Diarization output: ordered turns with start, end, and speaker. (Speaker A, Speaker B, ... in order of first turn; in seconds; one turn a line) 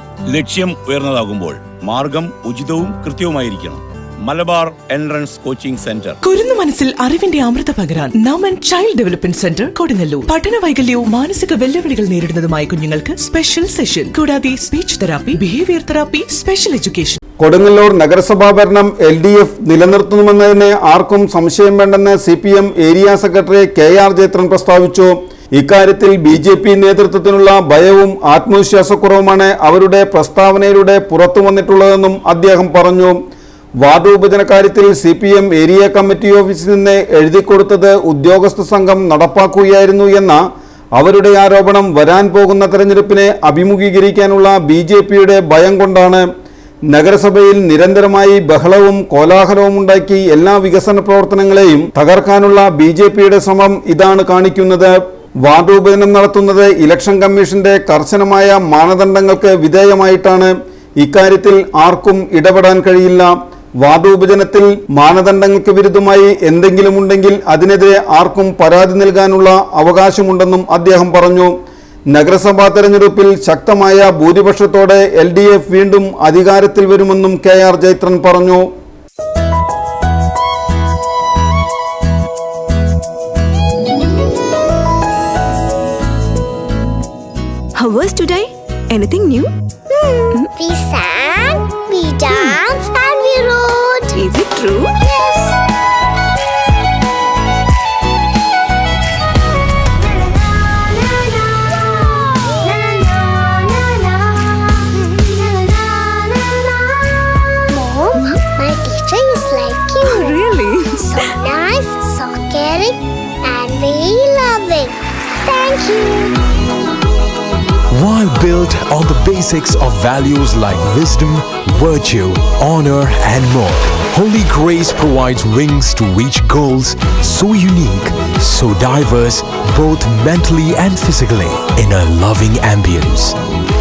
Speaker A: 0.3-6.2
Speaker B: 6.2-17.2
Speaker C: 17.4-33.2
Speaker C: 33.8-40.4
Speaker C: 41.0-46.3
Speaker C: 46.9-63.3
Speaker C: 63.8-71.5
Speaker C: 72.1-78.7
Speaker D: 87.8-89.5
Speaker E: 89.9-94.3
Speaker D: 94.1-94.9
Speaker E: 95.0-95.5
Speaker E: 101.5-116.4
Speaker D: 110.0-111.2
Speaker F: 117.9-133.4